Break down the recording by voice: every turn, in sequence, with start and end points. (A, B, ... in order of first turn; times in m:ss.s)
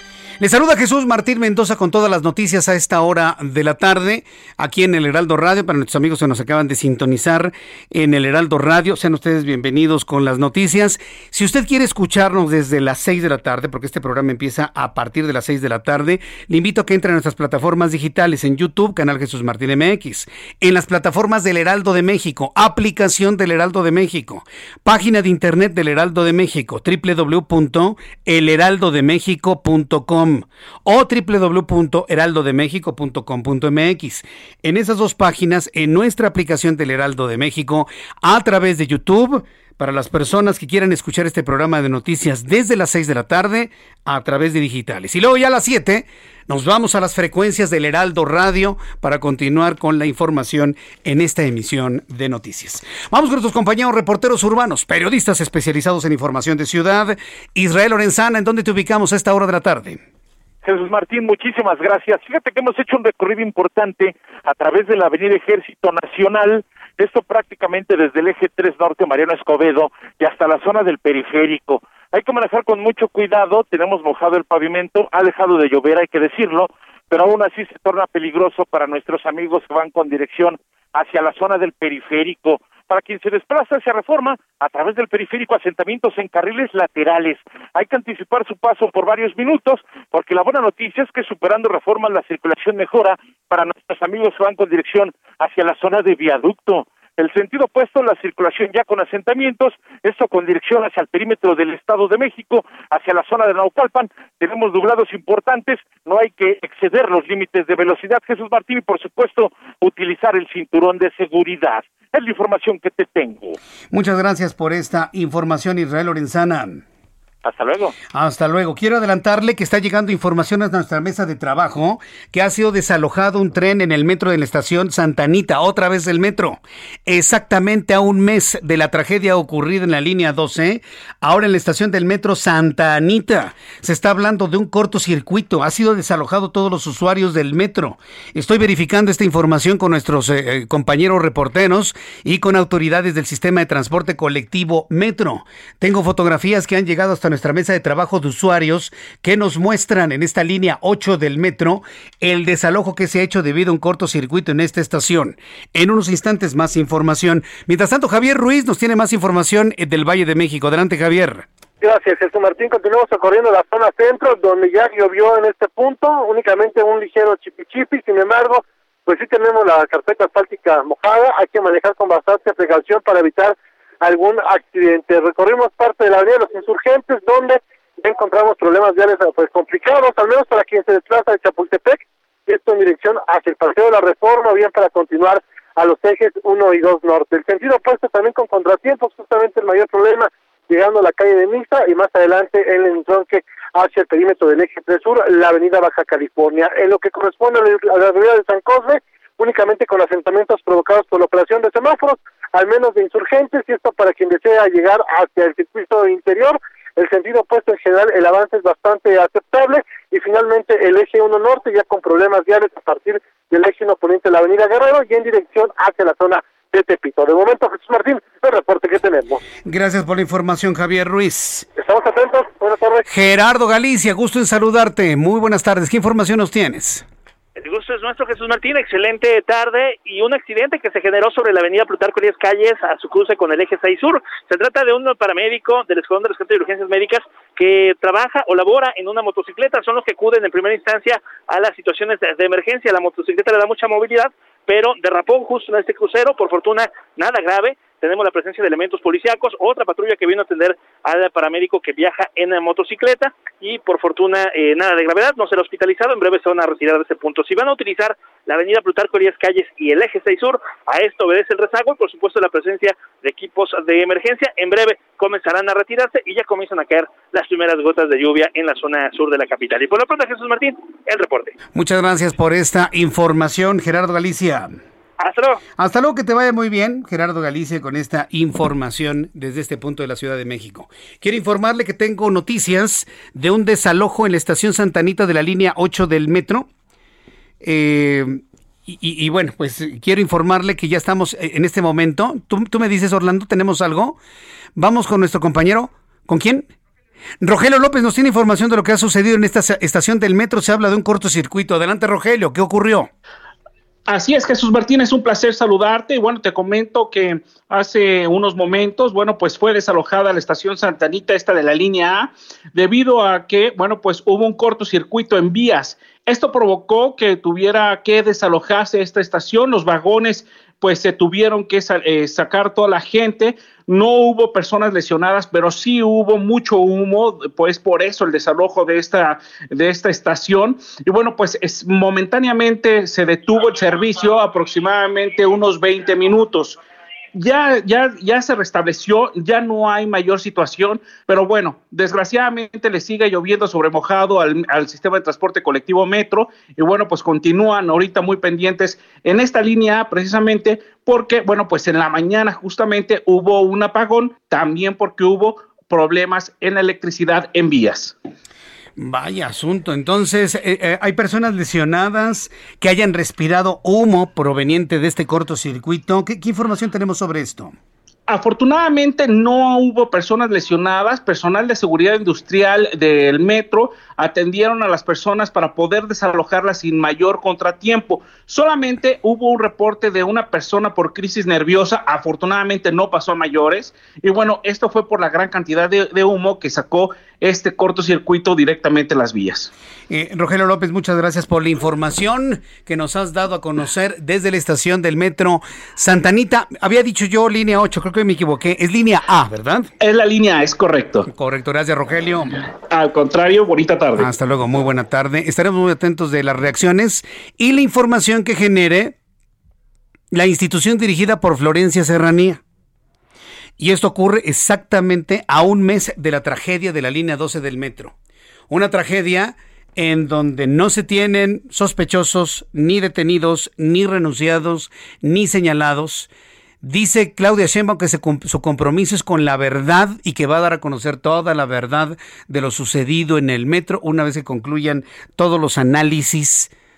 0:00.4-1:00.0 A
1:00.6-1:53.6 B
1:53.9-1:56.8 A
1:57.4-1:58.0 B
1:58.1-2:41.4 A
2:41.8-3:39.4 C
3:39.6-3:41.7 A
3:41.8-3:43.0 C
3:43.1-3:47.0 A
3:47.6-4:31.6 D
4:31.7-4:34.8 A
4:35.2-4:35.6 D
4:35.8-4:46.7 A
4:47.6-4:54.2 A
4:54.8-4:56.7 A
4:57.4-5:03.1 A
5:04.1-5:36.8 E
5:37.3-5:58.2 E
5:59.0-6:07.7 A
6:08.3-6:29.7 E
6:30.1-6:39.9 A
6:40.0-6:41.3 E
6:41.3-6:42.6 A
6:42.9-6:44.3 E
6:44.2-6:49.1 A
6:50.3-6:52.6 A
6:53.8-6:58.1 A
6:58.7-7:06.3 A
7:06.8-7:16.7 A